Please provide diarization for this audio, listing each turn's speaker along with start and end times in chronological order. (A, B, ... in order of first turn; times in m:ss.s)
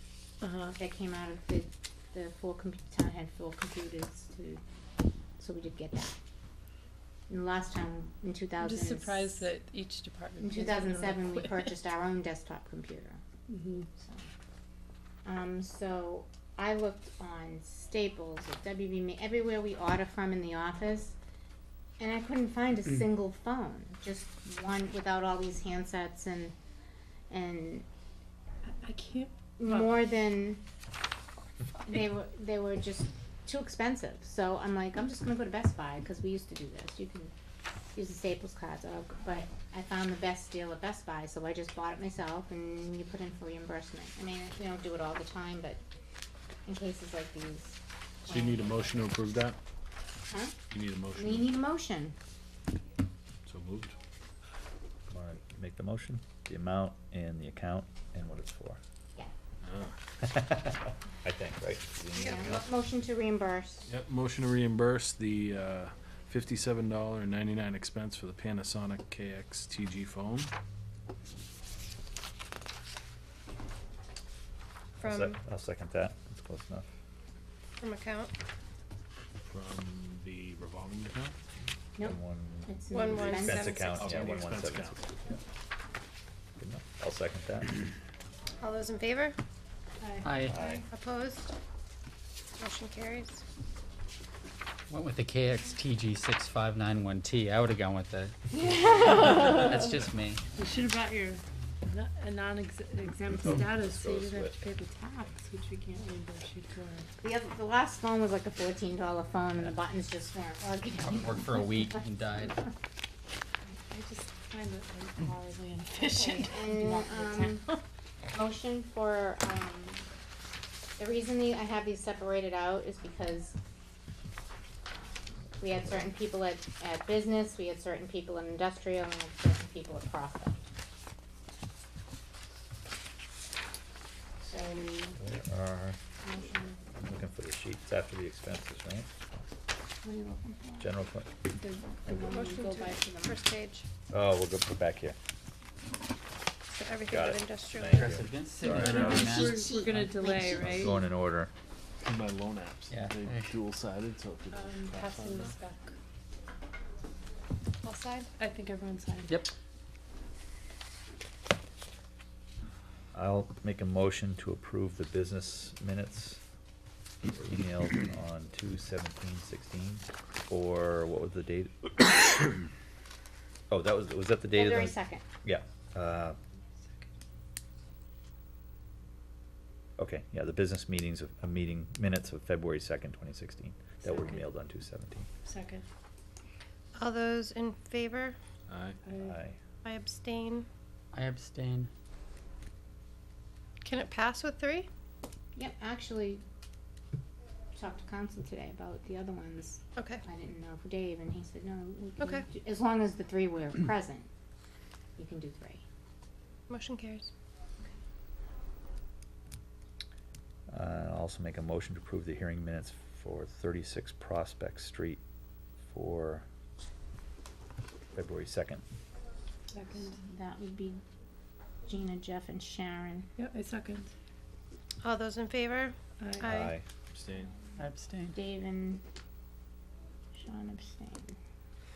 0:00.4-0:00.8 A
0:00.8-0:04.6 B
0:05.4-0:06.2 B
0:07.3-0:09.5 B
0:08.6-0:11.8 A
0:10.4-0:13.2 B
0:13.5-0:13.9 A
0:14.0-0:14.3 B
0:15.2-0:21.2 B
0:22.0-0:26.6 B
0:27.3-0:27.8 B
0:28.7-0:29.9 A
0:29.6-0:30.6 B
0:31.9-0:37.3 B
0:37.9-0:45.8 B
0:46.7-0:49.1 B
0:48.3-0:49.6 C
0:50.3-0:50.6 B
0:50.7-0:51.6 C
0:51.1-0:52.2 B
0:53.5-0:54.0 C
0:55.1-0:58.8 D
0:59.6-1:00.0 C
1:00.2-1:02.6 D
1:02.2-1:02.7 E
1:02.2-1:03.9 B
1:03.9-1:10.5 C
1:15.0-1:15.4 E
1:15.0-1:16.9 D
1:17.8-1:18.3 E
1:19.4-1:21.4 C
1:22.0-1:24.0 B
1:22.0-1:25.4 D
1:22.9-1:24.4 E
1:23.9-1:25.1 C
1:26.6-1:27.8 D
1:28.6-1:29.4 E
1:30.0-1:30.8 A
1:30.2-1:30.6 F
1:30.5-1:30.8 D
1:30.9-1:31.5 E
1:32.6-1:33.4 E
1:34.9-1:40.4 F
1:38.5-1:39.8 B
1:40.6-1:47.1 A
1:43.4-1:44.7 D
1:47.2-1:52.0 B
1:51.0-1:52.6 F
1:53.9-1:57.8 A
1:56.1-1:57.7 B
1:58.3-2:00.1 B
2:01.0-2:03.6 B
2:04.9-2:10.6 B
2:14.4-2:14.9 B
2:14.6-2:15.0 E
2:15.2-2:16.0 D
2:16.2-2:16.8 B
2:17.0-2:19.5 D
2:20.0-2:20.9 B
2:20.8-2:21.4 D
2:21.6-2:23.2 B
2:22.1-2:23.9 E
2:24.1-2:25.2 D
2:26.7-2:28.2 E
2:27.1-2:29.4 D
2:27.8-2:30.1 F
2:28.8-2:29.3 C
2:28.8-2:31.0 A
2:28.9-2:31.0 B
2:30.3-2:31.5 D
2:32.0-2:35.6 C
2:32.9-2:33.6 F
2:34.5-2:36.0 A
2:37.8-2:38.3 E
2:38.4-2:39.4 A
2:39.3-2:39.5 F
2:43.1-2:46.4 D
2:47.4-2:51.9 D
2:53.7-2:56.4 D
2:54.5-2:55.2 B
3:00.0-3:05.3 D
3:04.0-3:04.4 A
3:05.4-3:05.8 A
3:07.0-3:08.4 E
3:08.7-3:09.0 C
3:09.0-3:09.4 A
3:09.2-3:09.6 D
3:09.8-3:10.7 E
3:11.1-3:11.9 F
3:13.8-3:14.9 E
3:15.6-3:16.4 B
3:17.8-3:24.3 B
3:20.0-3:20.2 E
3:22.2-3:22.5 E
3:25.2-3:25.8 B
3:26.7-3:27.3 E
3:30.7-3:35.2 D
3:35.9-3:36.4 D
3:38.1-3:38.8 D
3:39.7-3:40.2 A
3:40.0-3:41.0 B
3:41.9-3:43.3 B
3:43.4-3:44.1 A
3:45.0-3:46.8 E
3:46.2-3:46.6 A
3:46.4-3:46.8 D
3:47.1-3:47.6 C
3:47.8-3:48.4 F
3:48.3-3:49.0 B
3:50.4-3:51.4 B